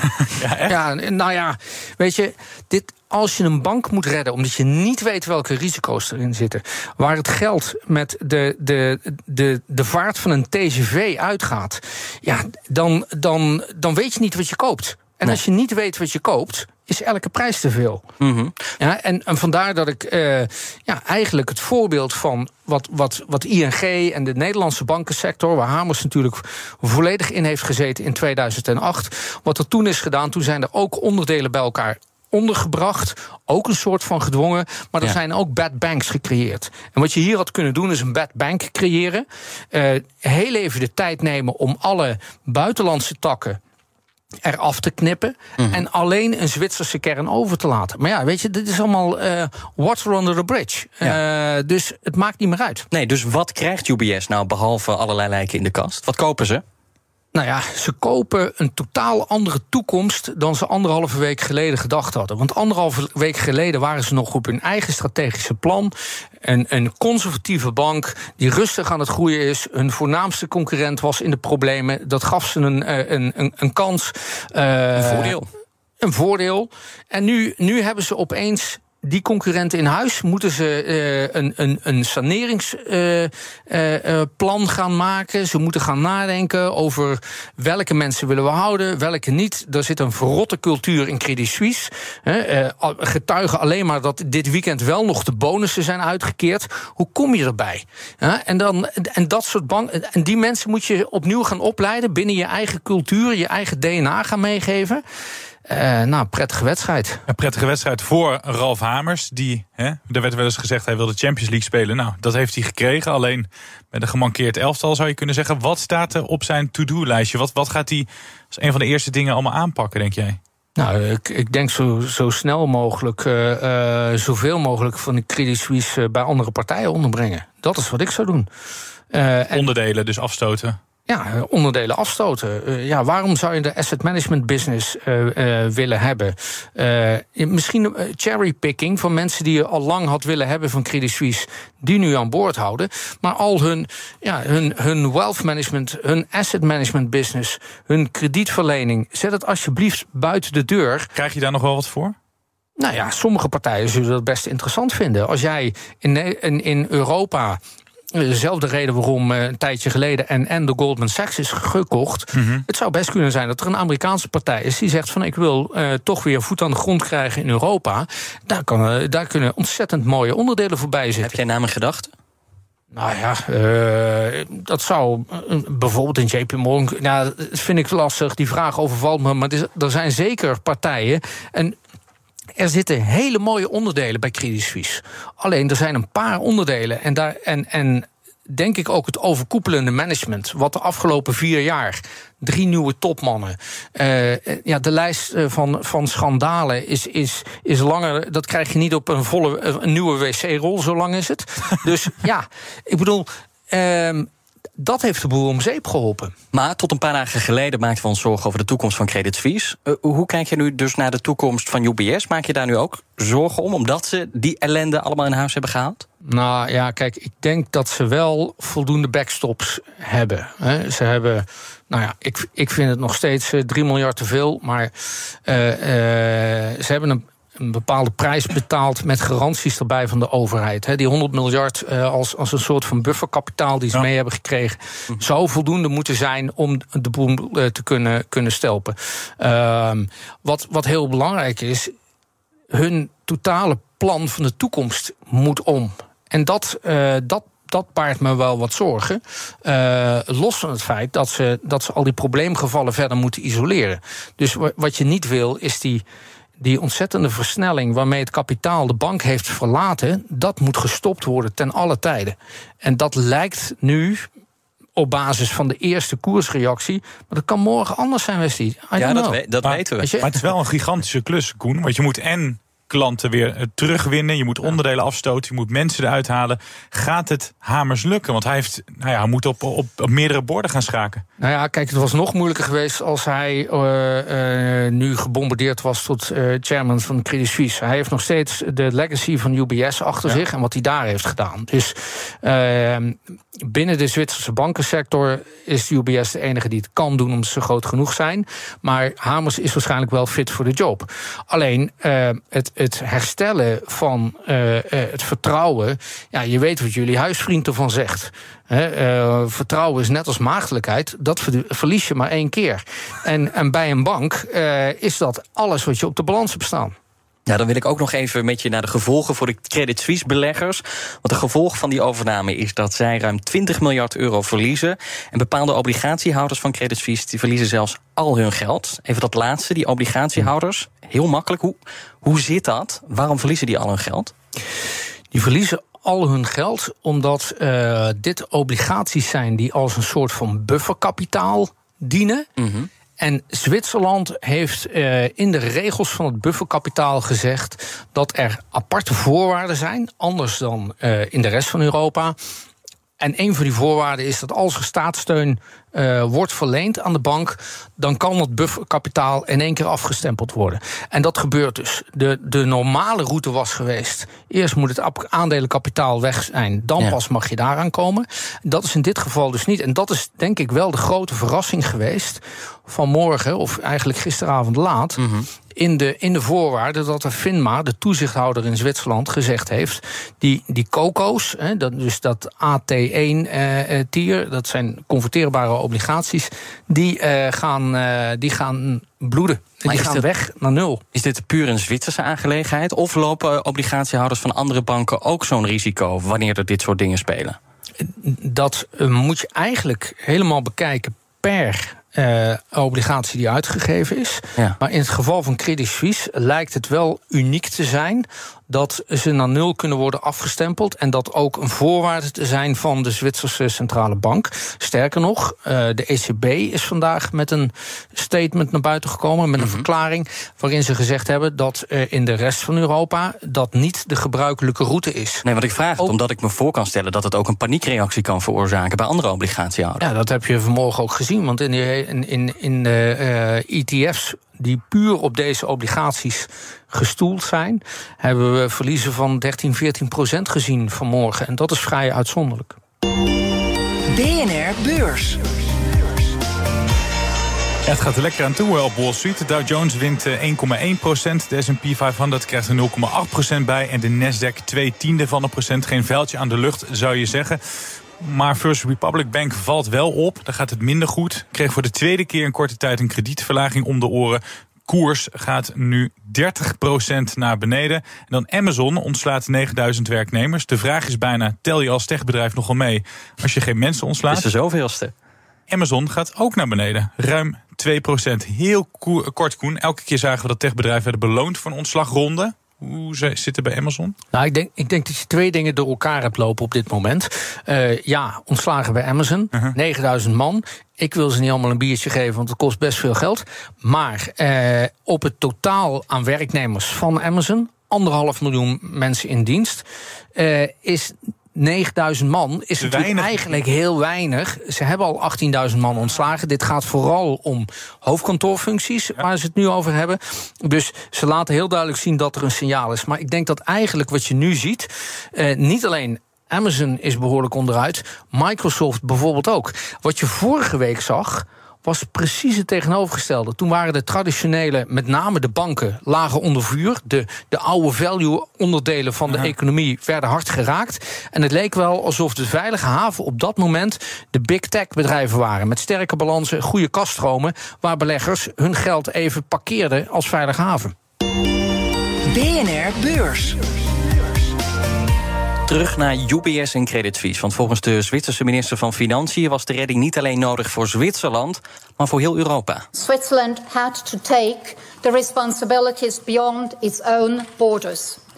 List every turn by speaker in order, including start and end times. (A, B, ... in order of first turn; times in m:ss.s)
0:00.2-0:00.8 A
0:00.7-0:18.1 B
0:18.2-0:18.7 C
0:18.8-0:43.6 B
0:44.4-0:52.9 B
0:52.9-0:56.6 C
0:57.3-1:05.9 B
1:06.4-1:15.4 B
1:15.0-1:15.5 C
1:16.0-1:45.0 B
1:45.7-1:47.2 B
1:47.3-2:00.4 A
2:00.8-2:08.5 B
2:09.1-2:09.7 B
2:09.5-2:10.8 A
2:11.1-2:31.1 B
2:31.2-2:32.2 A
2:32.8-2:37.6 B
2:38.1-2:51.3 B
2:42.3-2:42.6 A
2:51.2-2:52.1 C
2:52.9-3:01.8 B
3:02.6-3:26.3 B
3:26.5-3:36.1 C
3:36.3-3:44.9 B
3:45.5-4:01.9 B
4:02.7-4:16.0 B
4:16.6-4:24.3 B
4:25.0-4:29.4 B
4:29.0-4:30.1 C
4:29.6-4:41.2 A
4:30.0-4:30.4 B
4:41.4-5:17.0 B
5:17.5-5:34.3 C
5:35.3-5:42.5 B
5:42.6-5:42.9 C
5:43.2-5:52.4 B
5:53.2-6:15.2 B
6:15.2-6:15.5 C
6:15.8-6:31.0 B
6:29.9-6:30.2 C
6:31.2-6:37.6 C
6:38.0-7:05.4 B
6:59.6-6:59.9 C
7:05.4-7:10.0 C
7:10.0-7:22.8 B
7:24.1-7:25.5 D
7:27.9-7:37.6 A
7:38.2-7:54.5 A
7:54.3-7:55.1 C
7:55.7-8:04.2 A
8:04.3-8:19.8 B
8:20.4-9:00.9 B
8:22.8-8:23.6 A
9:02.3-9:03.8 D
9:05.7-9:12.9 C
9:13.0-9:18.2 E